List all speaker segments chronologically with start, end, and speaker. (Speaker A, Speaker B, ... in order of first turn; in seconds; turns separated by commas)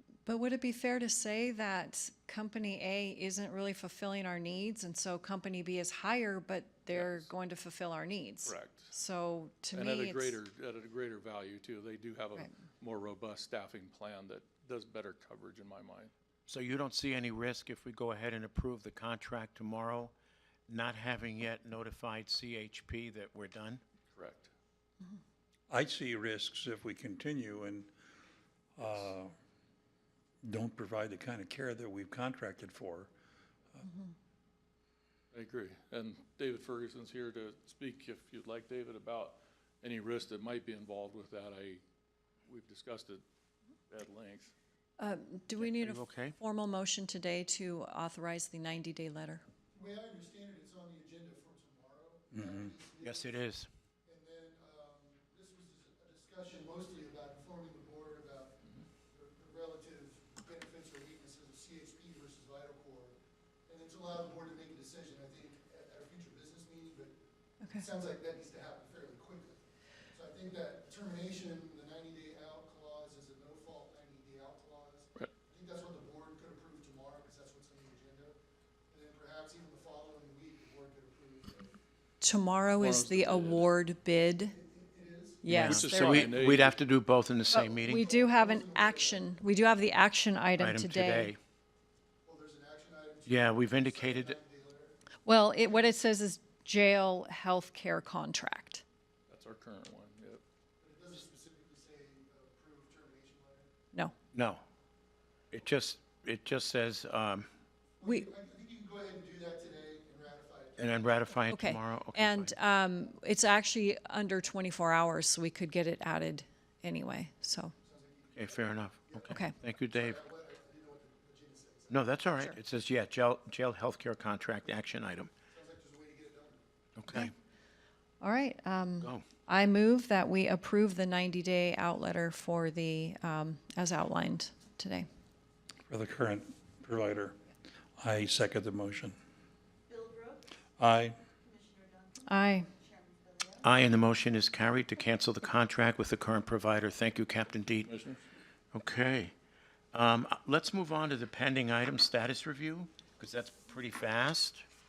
Speaker A: 0.2-10.4, Speaker B: 6.9-7.3, Speaker B: 8.4-8.9, Speaker B: 9.7-16.1, Speaker C: 16.5-20.1, Speaker C: 20.7-23.8, Speaker B: 24.1-24.5, Speaker D: 25.7-27.9, Speaker D: 28.8-29.3, Speaker D: 30.4-33.1, Speaker B: 35.3-41.8, Speaker B: 42.5-43.2, Speaker B: 43.9-44.5, Speaker A: 45.0-49.4, Speaker C: 45.6-46.3, Speaker E: 49.7-53.5, Speaker D: 52.3-52.7, Speaker C: 53.0-53.7, Speaker E: 54.0-63.1, Speaker E: 63.6-67.1, Speaker E: 67.8-69.6, Speaker E: 70.1-78.3, Speaker E: 78.9-81.7, Speaker A: 82.2-84.5, Speaker B: 82.8-83.7, Speaker E: 84.5-85.5, Speaker A: 85.4-86.3, Speaker B: 85.5-86.8, Speaker C: 85.5-87.8, Speaker E: 87.5-89.3, Speaker A: 87.7-91.3, Speaker C: 90.6-91.4, Speaker E: 92.2-95.0, Speaker C: 93.2-94.4, Speaker A: 95.2-98.8, Speaker B: 99.3-100.4, Speaker E: 100.8-103.7, Speaker C: 104.3-104.6, Speaker C: 105.5-107.5, Speaker E: 108.0-111.1, Speaker A: 108.0-108.3, Speaker C: 110.8-112.5, Speaker A: 111.5-117.7, Speaker E: 117.8-122.2, Speaker C: 118.3-120.2, Speaker C: 121.9-125.3, Speaker E: 125.5-126.6, Speaker C: 127.0-127.3, Speaker A: 128.2-135.1, Speaker D: 135.9-137.4, Speaker D: 138.0-139.2, Speaker F: 139.9-140.4, Speaker D: 140.8-141.2, Speaker F: 141.4-143.7, Speaker A: 142.3-142.7, Speaker C: 143.6-147.8, Speaker B: 147.8-148.2, Speaker C: 148.7-149.3, Speaker C: 149.9-154.6